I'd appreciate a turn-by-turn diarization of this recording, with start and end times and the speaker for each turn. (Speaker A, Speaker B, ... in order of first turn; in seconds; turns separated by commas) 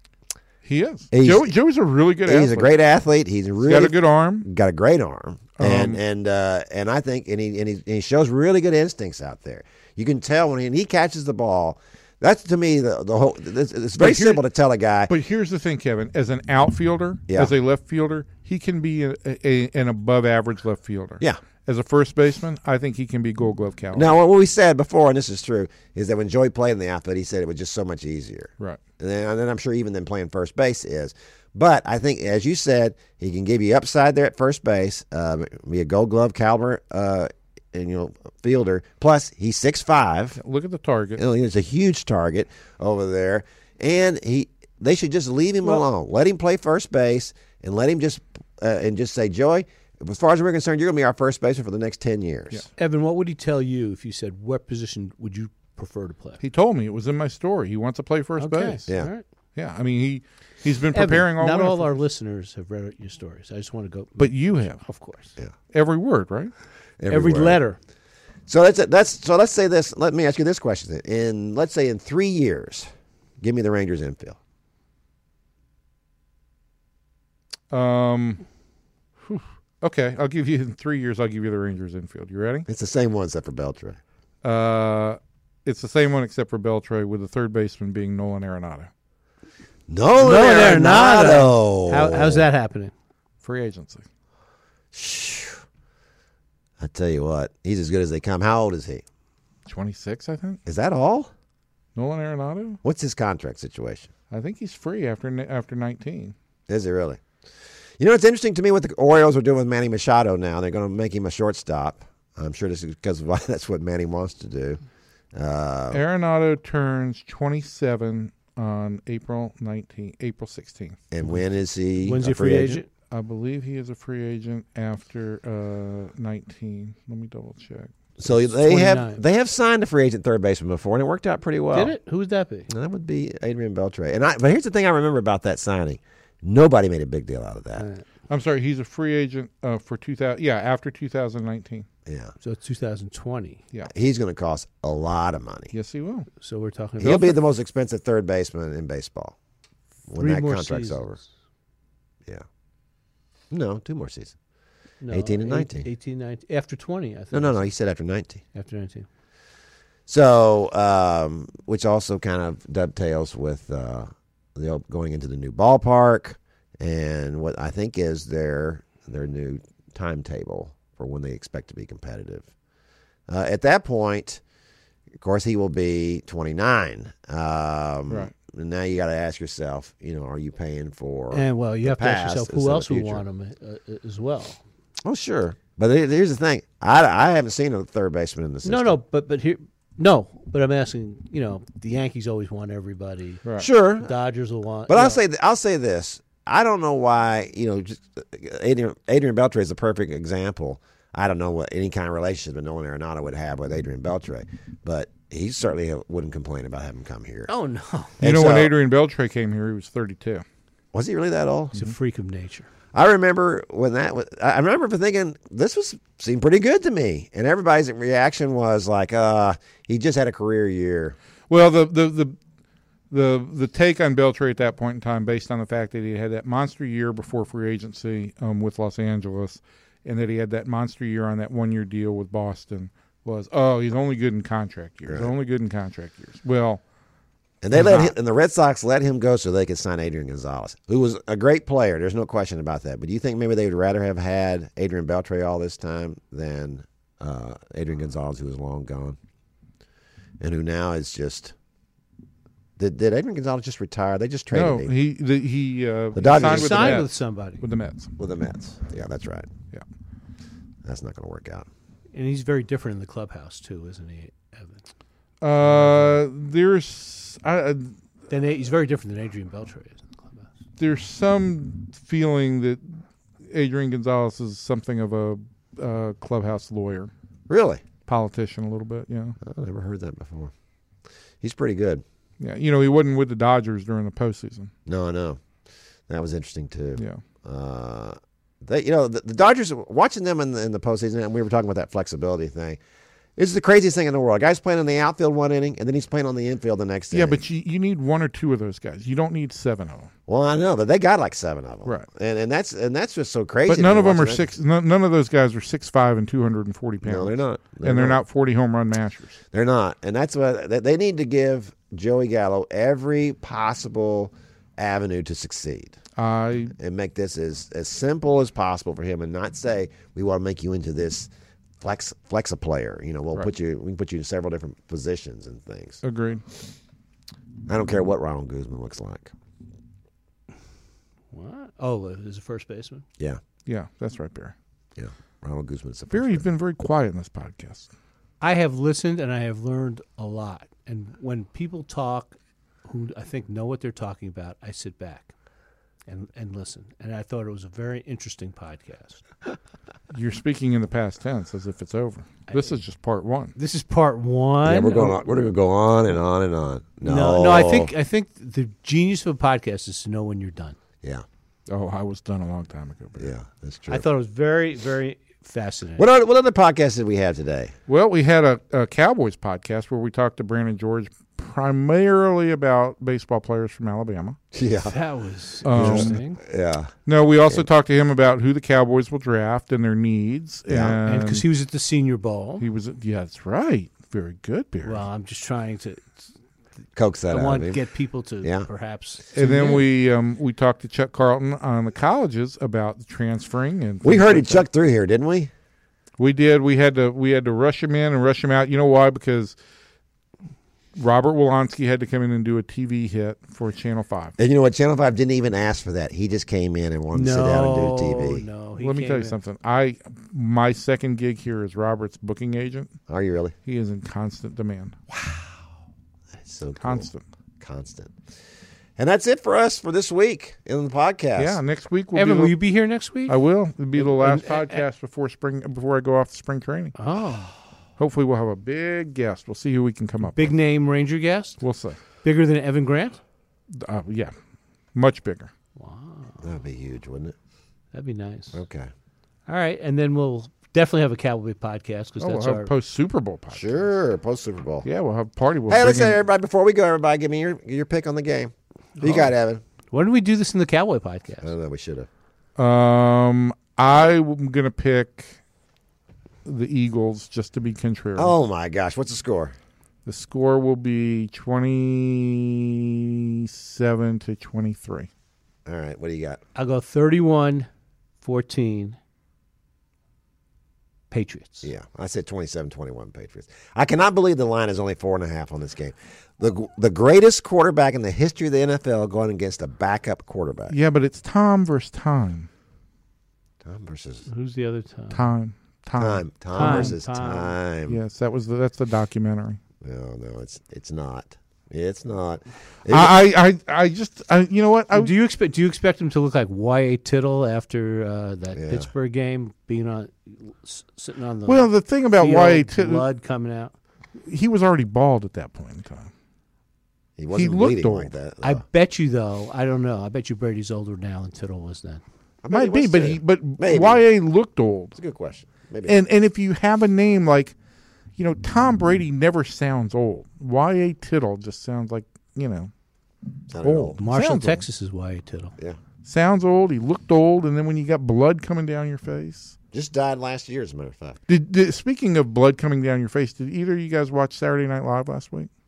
Speaker A: 0.6-2.7, Speaker B: 1.1-1.5, Speaker B: 2.2-15.1, Speaker A: 3.6-4.5, Speaker A: 5.6-6.0, Speaker A: 14.0-14.4, Speaker A: 15.1-24.1, Speaker B: 23.9-40.4, Speaker A: 40.4-41.2, Speaker B: 41.2-52.7, Speaker C: 52.8-56.4, Speaker A: 56.4-58.9, Speaker C: 58.4-59.2, Speaker A: 59.5-61.9, Speaker C: 60.9-65.3, Speaker A: 64.2-64.8, Speaker A: 65.7-66.5, Speaker B: 67.0-67.6, Speaker C: 67.1-67.8, Speaker B: 68.5-72.9, Speaker B: 73.4-74.4, Speaker A: 77.7-78.4, Speaker A: 79.2-82.7, Speaker B: 82.7-84.0, Speaker A: 84.4-88.9, Speaker B: 89.9-92.5, Speaker C: 90.2-92.9, Speaker A: 93.4-94.0, Speaker B: 94.9-95.6, Speaker B: 96.8-99.0, Speaker A: 99.7-100.6, Speaker B: 100.7-101.3, Speaker A: 102.0-102.8, Speaker B: 102.8-104.1, Speaker A: 104.3-106.3, Speaker B: 106.7-107.2, Speaker B: 108.0-114.8, Speaker B: 115.3-116.0, Speaker A: 115.9-121.1, Speaker B: 121.1-122.8, Speaker C: 122.0-122.9, Speaker A: 123.1-127.9, Speaker B: 128.2-131.9, Speaker C: 128.3-129.2, Speaker C: 131.7-132.7, Speaker B: 132.7-137.9, Speaker C: 137.8-138.0, Speaker A: 138.3-141.9, Speaker B: 142.1-142.3, Speaker C: 142.4-143.6, Speaker B: 143.9-145.7, Speaker A: 145.7-146.3, Speaker C: 146.4-147.4, Speaker B: 147.0-149.3, Speaker B: 150.1-151.2, Speaker C: 150.2-151.1, Speaker B: 153.5-154.3, Speaker C: 155.0-157.7, Speaker B: 155.1-155.9, Speaker B: 157.3-158.4, Speaker C: 158.5-159.1, Speaker B: 160.1-172.5, Speaker B: 173.3-174.4, Speaker B: 175.2-183.2, Speaker C: 181.3-184.6, Speaker B: 185.0-189.0, Speaker C: 188.6-193.4, Speaker B: 193.6-194.1, Speaker C: 194.0-195.2, Speaker B: 194.9-207.5, Speaker C: 207.5-208.2, Speaker B: 208.2-208.7, Speaker A: 208.2-210.4, Speaker B: 210.9-211.8, Speaker C: 211.8-212.7, Speaker B: 212.9-221.2, Speaker A: 221.5-222.4, Speaker A: 223.1-236.8, Speaker B: 237.6-249.2, Speaker A: 237.7-238.1, Speaker B: 250.4-251.5, Speaker B: 252.8-254.9, Speaker A: 254.5-258.1, Speaker B: 256.1-257.0, Speaker C: 256.3-257.6, Speaker B: 258.2-259.5, Speaker B: 260.9-261.7, Speaker C: 262.1-264.8, Speaker A: 265.4-268.0, Speaker C: 268.3-270.5, Speaker A: 270.8-277.1, Speaker B: 277.5-277.8, Speaker A: 278.1-279.4, Speaker B: 279.4-280.5, Speaker B: 281.4-282.0, Speaker A: 282.4-284.7, Speaker B: 284.9-285.4, Speaker B: 286.1-292.8, Speaker A: 287.0-287.2, Speaker B: 293.4-297.4, Speaker A: 297.1-300.1, Speaker B: 300.3-304.5, Speaker A: 303.7-309.4, Speaker B: 307.0-308.2, Speaker B: 309.5-316.0, Speaker A: 316.2-316.8, Speaker B: 316.8-326.0, Speaker A: 326.0-326.4, Speaker B: 327.7-329.3, Speaker C: 331.3-333.0, Speaker A: 333.6-334.5, Speaker B: 335.0-336.4, Speaker A: 336.1-337.9, Speaker C: 338.4-345.3, Speaker C: 346.1-349.2, Speaker A: 350.1-353.5, Speaker C: 353.6-355.3, Speaker B: 354.6-357.9, Speaker C: 357.0-360.8, Speaker A: 361.7-363.3, Speaker B: 363.2-364.0, Speaker C: 363.9-366.1, Speaker B: 366.0-367.7, Speaker A: 367.9-374.4, Speaker B: 374.5-375.0, Speaker C: 374.9-376.4, Speaker A: 375.6-376.2, Speaker B: 375.8-376.9, Speaker A: 377.1-381.4, Speaker B: 380.7-381.0, Speaker C: 381.0-382.7, Speaker A: 382.6-385.0, Speaker C: 384.9-386.3, Speaker B: 387.0-387.8, Speaker C: 387.3-389.9, Speaker B: 388.4-388.7, Speaker A: 389.4-394.6, Speaker B: 394.0-395.5, Speaker A: 396.2-399.5, Speaker A: 401.0-404.3, Speaker B: 404.4-408.5, Speaker C: 407.1-409.4, Speaker A: 408.8-413.0, Speaker B: 413.1-413.5, Speaker A: 413.6-415.0, Speaker B: 415.1-415.6, Speaker B: 416.4-417.1, Speaker A: 416.8-417.2, Speaker B: 417.6-418.1, Speaker B: 419.0-421.6, Speaker A: 421.4-422.6, Speaker C: 422.1-423.4, Speaker A: 423.3-426.9, Speaker C: 424.0-424.8, Speaker C: 427.0-427.6, Speaker A: 428.0-430.5, Speaker C: 430.4-431.6, Speaker A: 431.6-432.0, Speaker C: 432.2-433.2, Speaker A: 433.7-434.3, Speaker A: 434.9-435.5, Speaker C: 435.8-436.5, Speaker B: 436.4-437.4, Speaker C: 437.9-438.6, Speaker B: 438.5-438.9, Speaker C: 439.5-442.7, Speaker A: 442.2-443.9, Speaker B: 443.5-444.9, Speaker A: 444.8-446.2, Speaker B: 445.7-449.6, Speaker C: 449.0-449.3, Speaker C: 449.9-451.5, Speaker B: 451.4-452.1, Speaker A: 452.6-455.4, Speaker A: 456.4-458.3, Speaker B: 458.2-459.5, Speaker A: 460.1-465.1, Speaker B: 465.6-466.4, Speaker C: 466.5-467.7, Speaker C: 468.2-469.0, Speaker C: 471.1-471.7, Speaker B: 471.6-480.8, Speaker A: 480.7-482.5, Speaker B: 483.6-484.2, Speaker C: 484.3-485.2, Speaker A: 485.1-486.9, Speaker B: 486.0-488.0, Speaker C: 486.5-487.5, Speaker A: 487.9-489.6, Speaker B: 489.8-493.1, Speaker A: 492.9-495.1, Speaker C: 494.9-503.7, Speaker B: 498.6-498.9, Speaker A: 501.5-503.0, Speaker A: 504.3-506.1, Speaker B: 507.2-508.6, Speaker A: 507.3-508.1, Speaker C: 508.4-512.0, Speaker B: 512.4-514.0, Speaker A: 512.5-515.0, Speaker B: 515.0-516.0, Speaker A: 515.9-517.5, Speaker A: 518.2-522.7, Speaker B: 523.5-524.0, Speaker A: 523.6-524.6, Speaker C: 524.0-525.5, Speaker A: 526.0-529.5, Speaker B: 529.7-531.2, Speaker A: 531.3-535.5